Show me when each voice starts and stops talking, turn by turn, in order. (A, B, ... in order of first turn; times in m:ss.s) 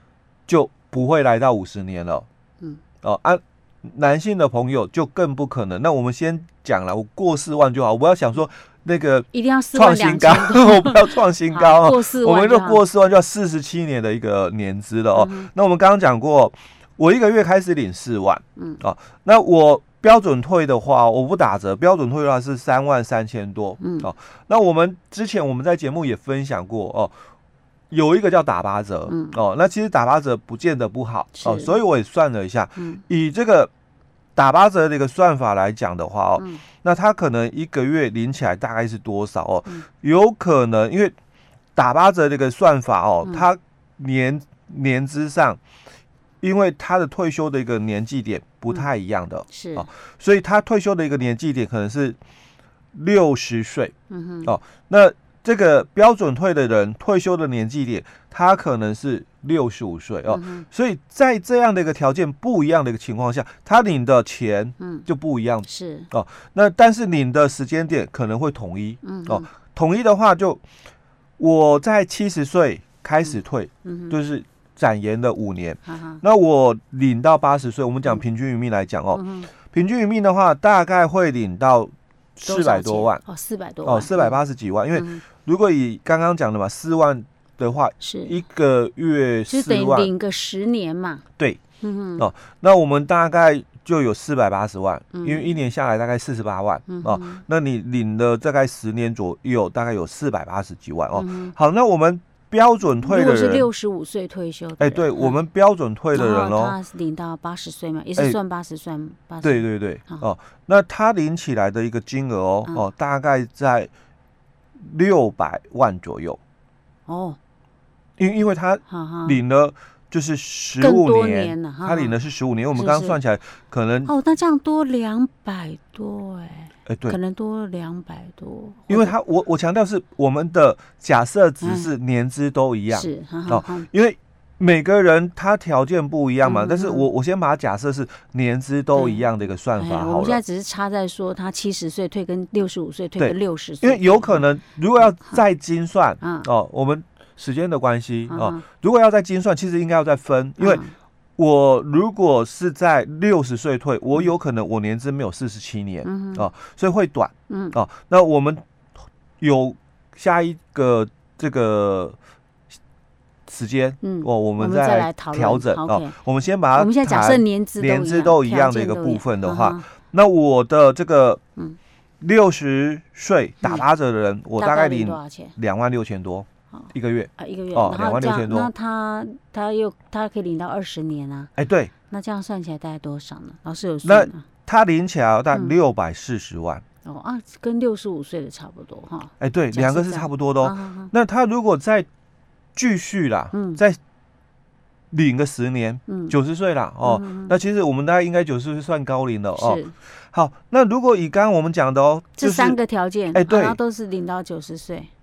0:00.5-0:02.3 A
0:03.0-0:27.1 A
0:09.3-0:12.8 B
0:15.2-0:15.5 B
0:18.6-0:18.8 B
0:23.8-0:24.1 B
0:27.9-0:33.7 A
0:29.1-0:29.4 B
0:31.4-0:31.8 B
0:32.8-0:33.0 B
0:34.4-0:41.1 A
0:36.4-0:36.6 B
0:41.8-0:45.6 A
0:46.4-0:52.2 A
0:49.5-0:49.9 B
0:52.9-1:10.6 A
0:54.1-0:54.5 B
1:00.3-1:00.7 B
1:04.8-1:05.1 B
1:05.7-1:06.1 B
1:09.0-1:09.5 B
1:11.4-1:23.2 A
1:13.2-1:14.2 B
1:15.9-1:16.2 B
1:19.1-1:19.5 B
1:22.4-1:24.4 B
1:23.8-1:30.1 A
1:24.9-1:25.2 B
1:28.0-1:28.4 B
1:29.5-1:31.2 B
1:31.8-1:32.3 B
1:32.2-1:43.7 A
1:35.1-1:35.6 B
1:36.9-1:37.4 B
1:41.1-1:41.5 B
1:43.0-1:45.4 B
1:44.8-1:46.8 A
1:46.1-1:50.3 B
1:49.4-1:53.9 A
1:54.8-1:56.4 A
1:57.1-1:57.4 B
1:58.2-2:04.1 A
1:58.9-1:59.4 B
2:00.8-2:02.2 B
2:02.7-2:03.2 B
2:04.1-2:09.2 B
2:06.9-2:07.2 A
2:08.9-2:20.4 A
2:11.6-2:11.9 B
2:12.9-2:13.9 B
2:16.4-2:17.1 B
2:18.9-2:24.4 B
2:23.2-2:30.8 A
2:25.0-2:25.4 B
2:26.2-2:26.5 B
2:28.3-2:28.6 B
2:30.6-2:30.9 B
2:31.4-2:38.6 A
2:36.0-2:36.5 B
2:37.5-2:37.8 B
2:39.4-2:42.2 A
2:43.5-2:51.4 A
2:44.0-2:46.2 B
2:46.8-2:49.9 B
2:52.2-2:58.7 A
2:54.6-2:55.6 B
2:56.7-3:01.5 B
3:01.6-3:01.9 A
3:02.1-3:04.4 B
3:04.0-3:06.8 A
3:07.0-3:11.1 B
3:09.4-3:12.1 A
3:12.8-3:14.0 A
3:13.5-3:13.8 B
3:15.1-3:22.8 A
3:16.1-3:16.4 B
3:17.0-3:17.6 B
3:19.6-3:19.9 B
3:22.4-3:25.1 B
3:23.3-3:23.8 A